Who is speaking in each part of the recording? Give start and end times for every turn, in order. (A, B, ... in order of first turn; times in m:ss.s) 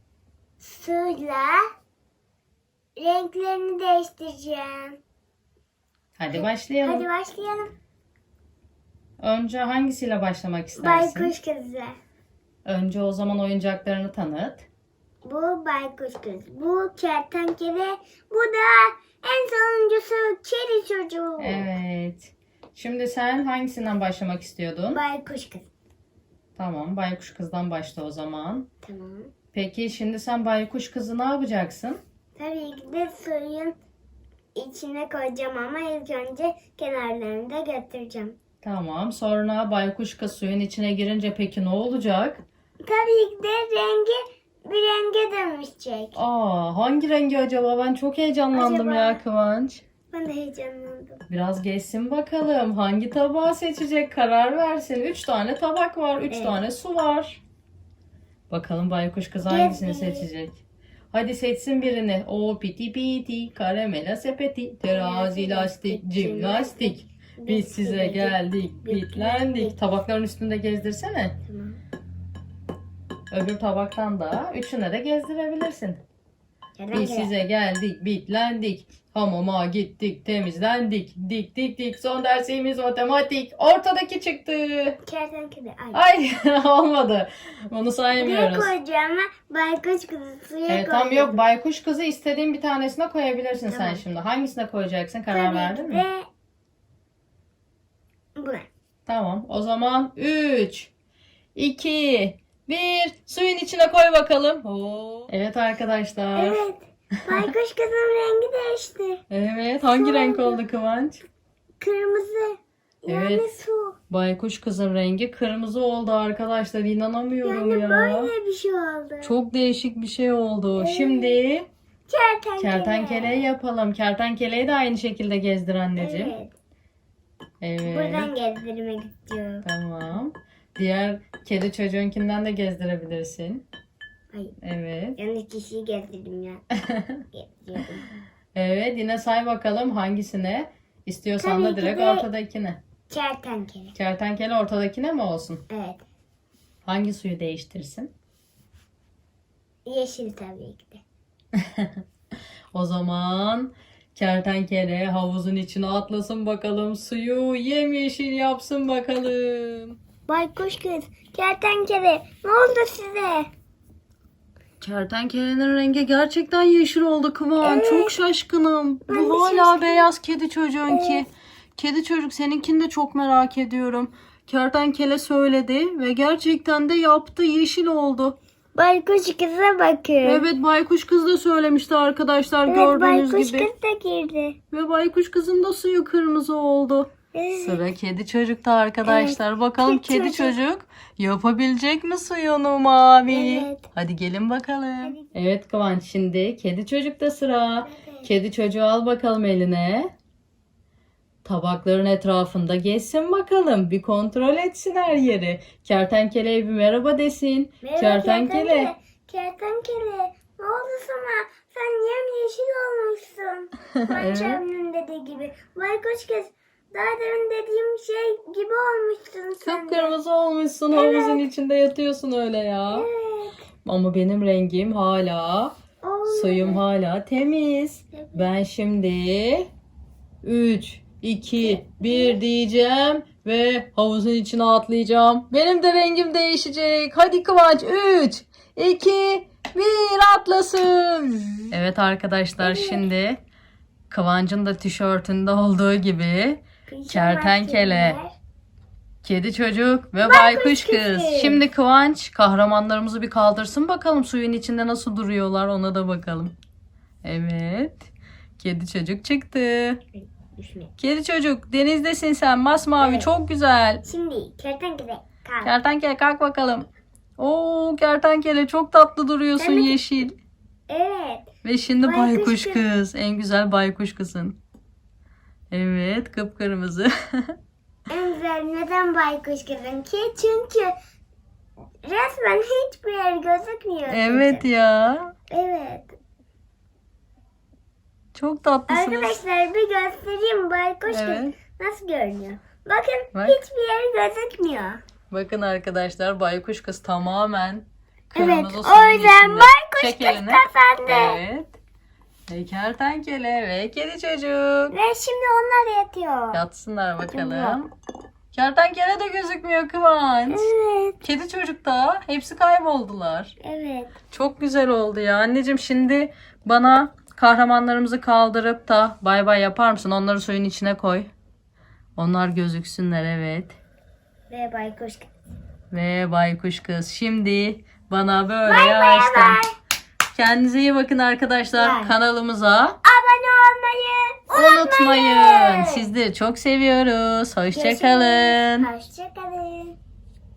0:00.6-0:01.6 A
0:03.0-0:05.0 A
0:06.2-0:07.0 B
0:06.3-0:07.7 A
0:09.2-0:11.3 B
0:10.8-0:12.0 A
0:12.6-0:14.7 B
0:15.2-0:21.7 A
0:21.4-0:25.0 B
0:24.9-0:25.7 A
0:26.6-0:28.7 B
0:28.8-0:29.3 A
0:29.5-0:32.0 B
0:32.3-0:33.8 A
0:34.5-0:38.4 A
0:38.6-0:42.4 B
0:42.8-0:46.2 A
0:46.1-0:49.8 B
0:48.5-0:49.2 A
0:50.1-0:51.2 A
0:51.3-0:57.4 B
0:56.3-0:56.6 A
0:58.5-1:00.6 B
0:59.4-1:00.3 A
1:01.1-1:11.4 B
1:04.8-1:09.8 A
1:11.4-1:11.8 A
1:13.3-1:16.0 B
1:16.8-1:17.3 A
1:16.9-1:25.0 B
1:25.0-1:26.0 A
1:25.9-1:28.7 B
1:28.1-1:31.4 A
1:30.7-1:36.0 B
1:33.7-1:34.0 A
1:35.3-1:36.2 A
1:38.4-1:38.7 A
1:39.1-1:40.9 B
1:41.5-1:46.6 B
1:46.3-1:49.2 A
1:49.3-1:51.2 B
1:49.8-1:50.6 A
1:51.8-1:54.0 A
1:53.1-1:53.5 B
1:54.1-1:58.3 B
1:57.4-1:59.4 A
1:59.2-2:01.7 B
2:00.8-2:01.4 A
2:02.1-2:03.5 A
2:02.6-2:06.3 B
2:06.0-2:06.5 A
2:07.6-2:08.3 B
2:07.8-2:09.6 A
2:09.6-2:13.6 B
2:14.6-2:15.2 B
2:15.2-2:16.6 A
2:16.9-2:17.2 B
2:17.3-2:18.1 A
2:18.5-2:22.8 B
2:21.4-2:22.3 A
2:23.1-2:23.9 A
2:23.9-2:25.6 B
2:25.7-2:26.0 A
2:26.8-2:28.1 B
2:29.8-2:31.0 A
2:31.5-2:32.0 B
2:32.7-2:40.0 B
2:40.3-2:43.5 A
2:44.8-2:58.4 B
2:47.6-2:48.2 A
2:49.1-2:50.1 A
2:50.9-2:51.2 A
2:58.7-3:00.4 A
3:00.2-3:03.7 B
3:02.7-3:04.6 A
3:04.7-3:07.1 B
3:07.3-3:07.9 A
3:07.6-3:20.1 B
3:09.0-3:10.5 A
3:13.3-3:13.8 A
3:15.0-3:15.3 A
3:17.8-3:18.3 A
3:21.4-3:28.9 B
3:27.8-3:40.1 A
3:34.0-3:34.6 B
3:39.6-3:43.1 B
3:40.9-3:41.4 A
3:42.9-3:43.6 A
3:43.8-3:49.7 B
3:46.0-3:46.8 A
3:48.1-3:48.5 A
3:50.4-4:01.0 B
3:51.6-3:52.4 A
4:01.7-4:03.4 B
4:02.6-4:03.0 A
4:04.1-4:08.2 B
4:06.9-4:08.3 A
4:09.2-4:16.5 B
4:10.2-4:11.6 A
4:17.2-4:18.1 B
4:18.6-4:20.0 B
4:20.1-4:20.9 A
4:21.0-4:24.0 B
4:23.0-4:23.3 A
4:24.0-4:25.7 A
4:25.6-4:30.4 B
4:29.6-4:30.0 A
4:30.9-4:31.5 A
4:31.6-4:34.6 B
4:32.0-4:32.8 A
4:35.7-4:37.5 B
4:38.1-4:40.9 A
4:42.0-4:44.6 A
4:44.1-4:45.3 B
4:45.5-4:46.1 A
4:48.3-4:49.4 B
4:48.9-4:55.0 A
4:51.1-4:51.5 B
4:55.3-5:01.8 B
4:58.3-5:01.4 A
5:02.5-5:04.9 B
5:04.9-5:06.6 A
5:06.5-5:07.9 B
5:07.3-5:07.8 A
5:08.5-5:10.7 B
5:10.5-5:11.2 A
5:11.2-5:13.5 B
5:13.6-5:14.1 A
5:14.3-5:21.3 B
5:22.2-5:23.8 B
5:24.5-5:25.3 A
5:25.9-5:29.6 B
5:28.6-5:29.7 A
5:30.3-5:33.0 B
5:31.7-5:32.1 A
5:33.0-5:36.0 A
5:34.5-5:38.9 B
5:37.7-5:40.0 A